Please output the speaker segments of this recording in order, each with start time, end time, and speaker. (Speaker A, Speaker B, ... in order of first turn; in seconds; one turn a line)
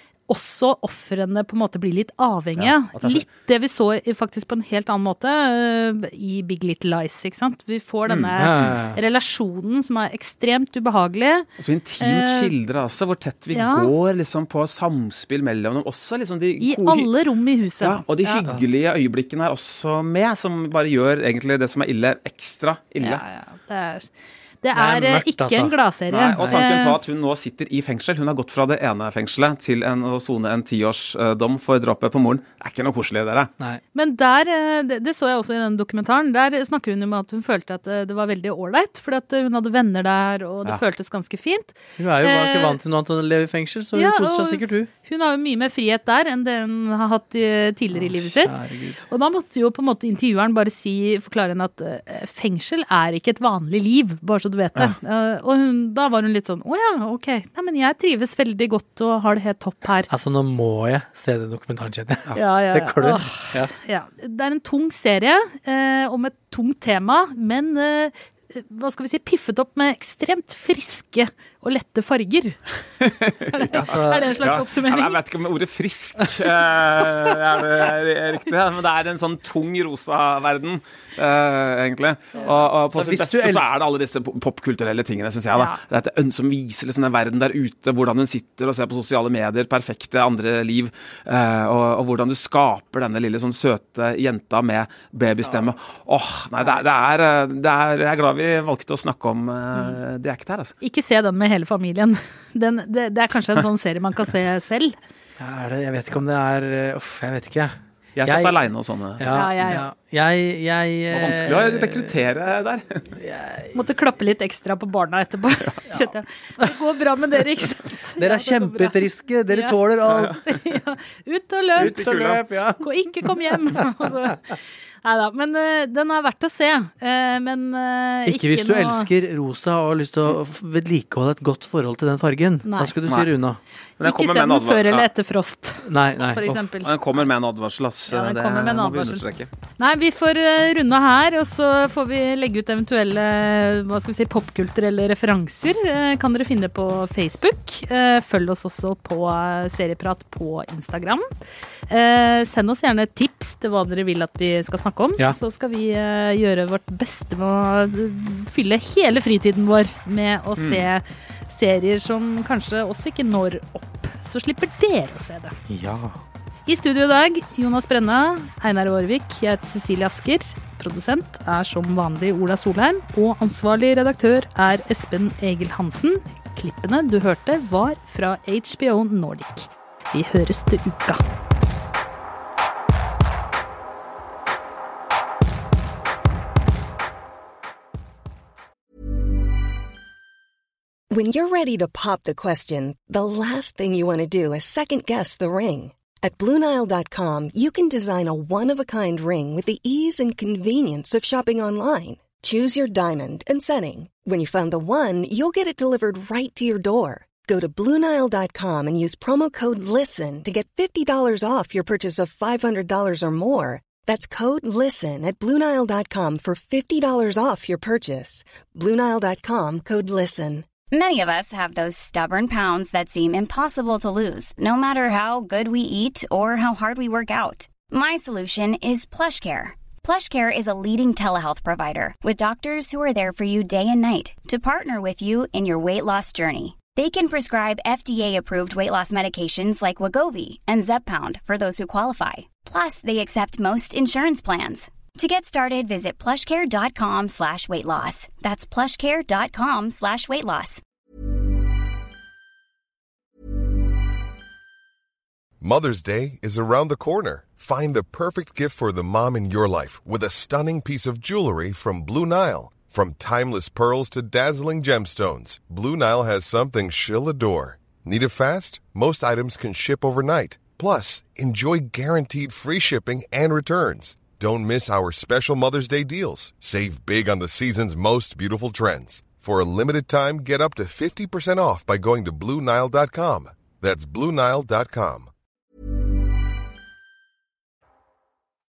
Speaker A: 0.3-11.5
Speaker B: 2.6-3.2
Speaker B: 8.1-8.8
Speaker C: 8.4-9.0
Speaker B: 11.6-17.1
Speaker A: 12.0-12.5
Speaker A: 13.5-13.9
Speaker A: 16.6-18.4
Speaker B: 17.8-23.2
Speaker A: 23.0-24.1
Speaker A: 24.6-27.0
Speaker C: 24.8-25.8
Speaker B: 26.1-33.5
Speaker A: 34.0-42.8
Speaker C: 42.0-44.9
Speaker A: 43.9-48.5
Speaker C: 47.9-49.1
Speaker A: 49.1-60.1
Speaker C: 60.1-63.7
Speaker A: 62.4-72.6
Speaker B: 73.0-100.8
Speaker A: 73.5-75.2
Speaker C: 73.7-74.5
Speaker C: 82.5-83.7
Speaker A: 85.5-85.8
Speaker C: 95.4-95.7
Speaker A: 100.8-105.0
Speaker C: 105.4-108.6
Speaker B: 108.2-109.5
Speaker C: 109.2-112.2
Speaker A: 109.3-109.8
Speaker B: 111.1-113.0
Speaker C: 113.1-113.8
Speaker A: 113.7-122.0
Speaker C: 118.2-120.4
Speaker C: 121.8-123.8
Speaker B: 121.8-122.4
Speaker A: 122.8-129.1
Speaker C: 128.3-133.6
Speaker A: 132.6-133.0
Speaker B: 134.0-135.1
Speaker A: 134.0-136.9
Speaker C: 135.8-136.6
Speaker B: 136.8-139.5
Speaker A: 138.1-139.2
Speaker A: 139.8-151.3
Speaker A: 151.9-165.6
Speaker B: 160.6-160.9
Speaker C: 165.7-166.2
Speaker A: 166.7-181.2
Speaker D: 191.1-220.7
Speaker E: 220.9-250.8
Speaker F: 255.6-285.3